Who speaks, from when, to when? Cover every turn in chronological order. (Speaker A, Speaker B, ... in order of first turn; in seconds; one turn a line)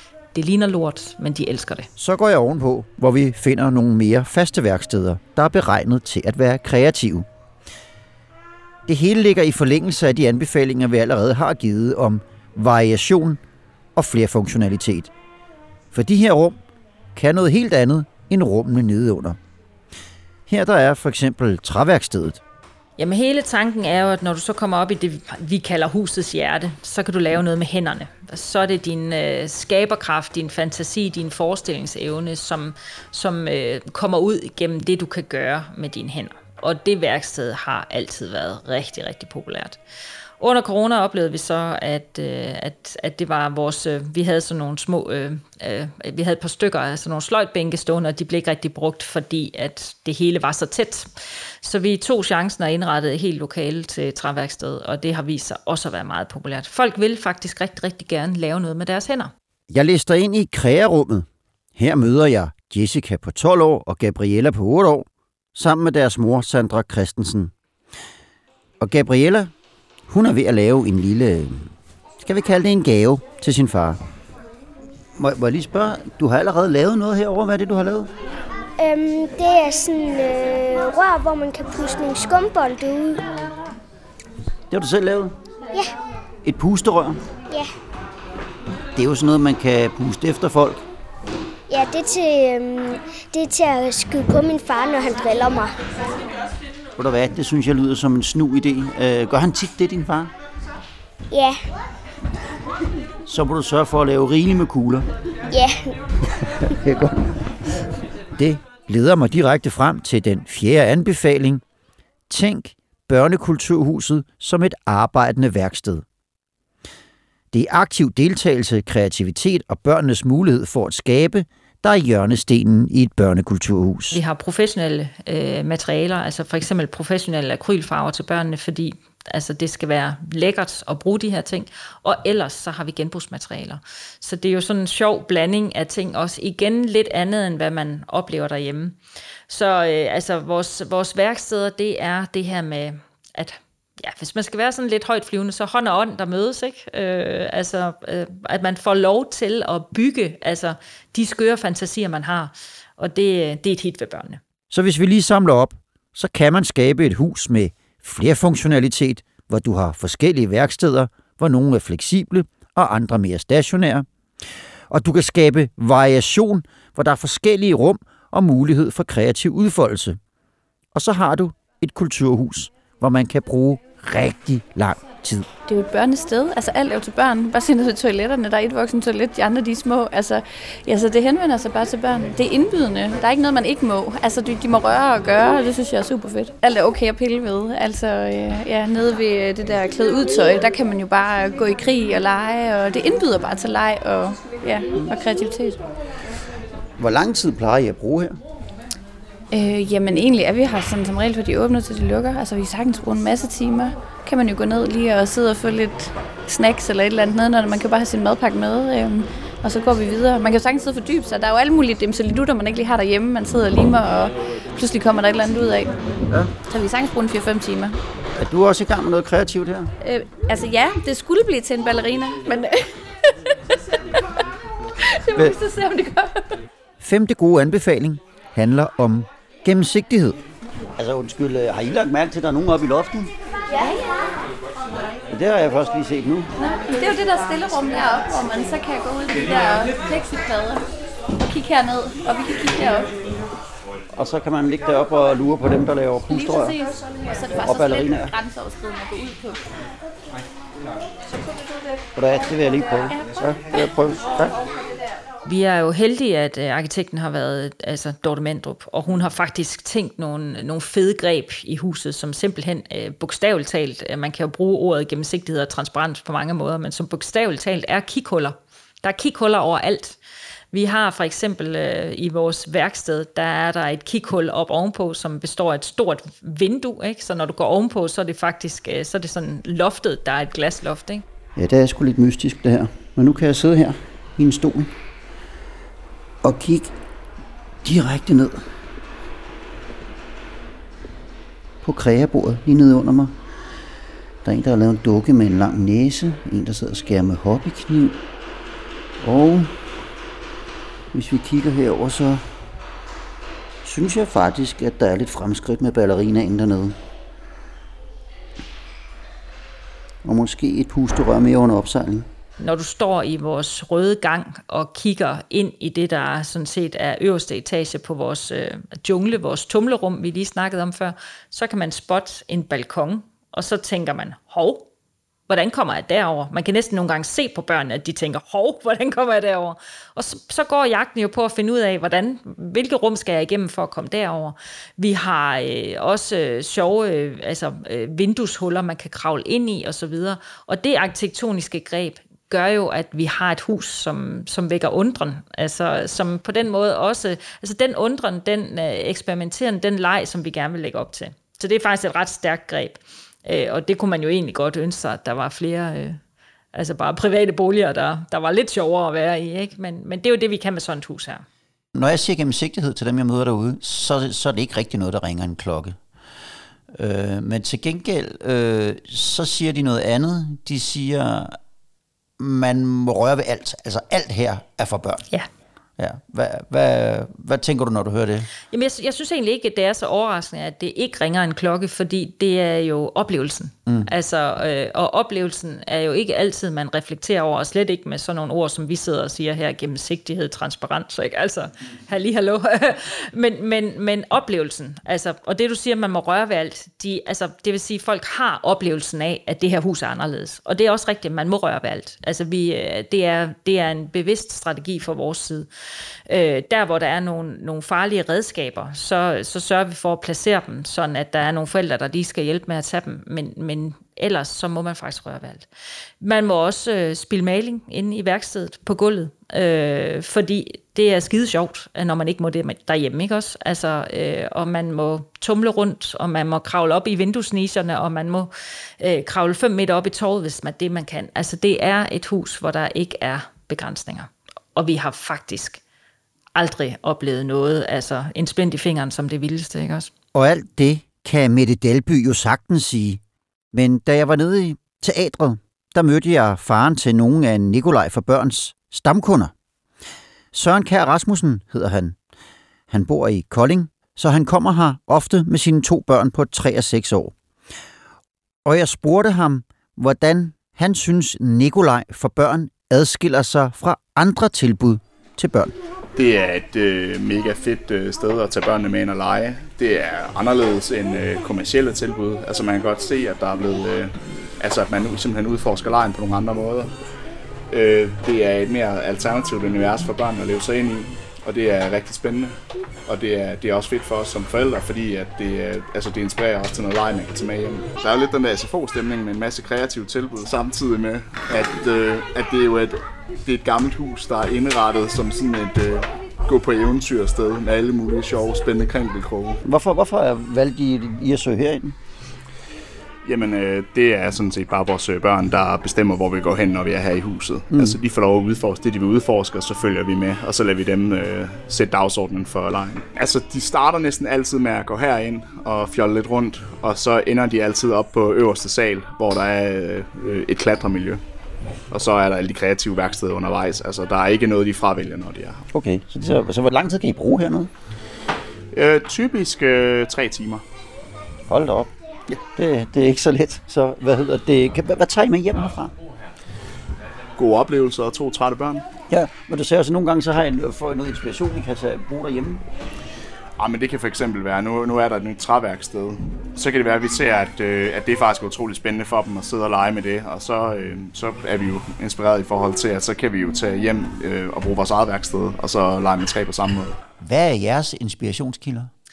Speaker A: 0.3-1.9
Speaker B: 2.0-7.3
Speaker B: 8.8-13.4
Speaker B: 13.9-15.1
Speaker B: 15.9-16.6
Speaker B: 17.1-19.4
Speaker B: 20.5-22.4
Speaker A: 23.0-39.8
Speaker A: 40.4-51.1
Speaker A: 51.6-59.3
Speaker B: 59.7-67.5
Speaker B: 68.8-69.5
Speaker B: 70.1-74.0
Speaker B: 75.2-78.1
Speaker C: 78.8-83.3
Speaker B: 84.7-85.3
Speaker B: 86.4-87.2
Speaker B: 88.9-90.8
Speaker C: 91.7-95.8
Speaker B: 97.0-100.3
Speaker C: 101.3-101.6
Speaker B: 103.2-105.0
Speaker C: 105.5-105.9
Speaker B: 106.3-107.3
Speaker B: 108.3-111.6
Speaker B: 112.3-116.0
Speaker B: 117.5-124.2
Speaker A: 124.1-139.0
Speaker A: 139.5-154.4
Speaker B: 154.7-164.1
Speaker B: 164.9-170.2
Speaker B: 170.9-175.5
Speaker D: 175.7-195.8
Speaker B: 197.0-198.3
Speaker D: 199.5-215.9
Speaker D: 216.6-218.0
Speaker B: 218.4-219.9
Speaker D: 220.0-224.2
Speaker D: 225.0-226.6
Speaker B: 227.0-230.4
Speaker B: 231.0-233.3
Speaker D: 233.8-234.0
Speaker B: 235.3-236.5
Speaker D: 236.6-240.8
Speaker D: 241.4-243.1
Speaker B: 244.1-246.8
Speaker D: 246.3-249.6
Speaker B: 247.6-248.3
Speaker B: 252.2-254.6
Speaker A: 255.4-270.2
Speaker A: 270.7-281.2
Speaker B: 281.6-284.9
Speaker B: 286.4-286.9
Speaker B: 287.8-288.6
Speaker B: 291.8-293.4
Speaker B: 294.4-298.2
Speaker B: 299.2-299.7
Speaker B: 301.1-302.5
Speaker B: 303.8-307.0
Speaker B: 310.2-312.3
Speaker A: 312.6-324.9
Speaker A: 325.5-356.2
Speaker A: 356.7-361.4
Speaker B: 361.9-366.0
Speaker B: 366.9-371.6
Speaker B: 372.4-375.2
Speaker B: 376.0-378.5
Speaker A: 378.7-405.7
Speaker A: 406.3-415.7
Speaker A: 416.2-435.8
Speaker A: 436.5-440.1
Speaker B: 440.3-443.2
Speaker B: 443.7-449.5
Speaker B: 450.5-452.2
Speaker B: 452.9-457.3
Speaker B: 458.6-465.8
Speaker E: 466.1-476.9
Speaker E: 477.7-482.5
Speaker E: 483.1-499.6
Speaker B: 499.6-502.0
Speaker E: 503.2-521.2
Speaker B: 507.7-508.0
Speaker E: 521.9-525.6
Speaker B: 525.7-527.7
Speaker E: 528.7-530.6
Speaker B: 531.5-535.9
Speaker E: 537.4-538.8
Speaker B: 539.1-542.6
Speaker E: 543.6-557.0
Speaker B: 557.2-558.9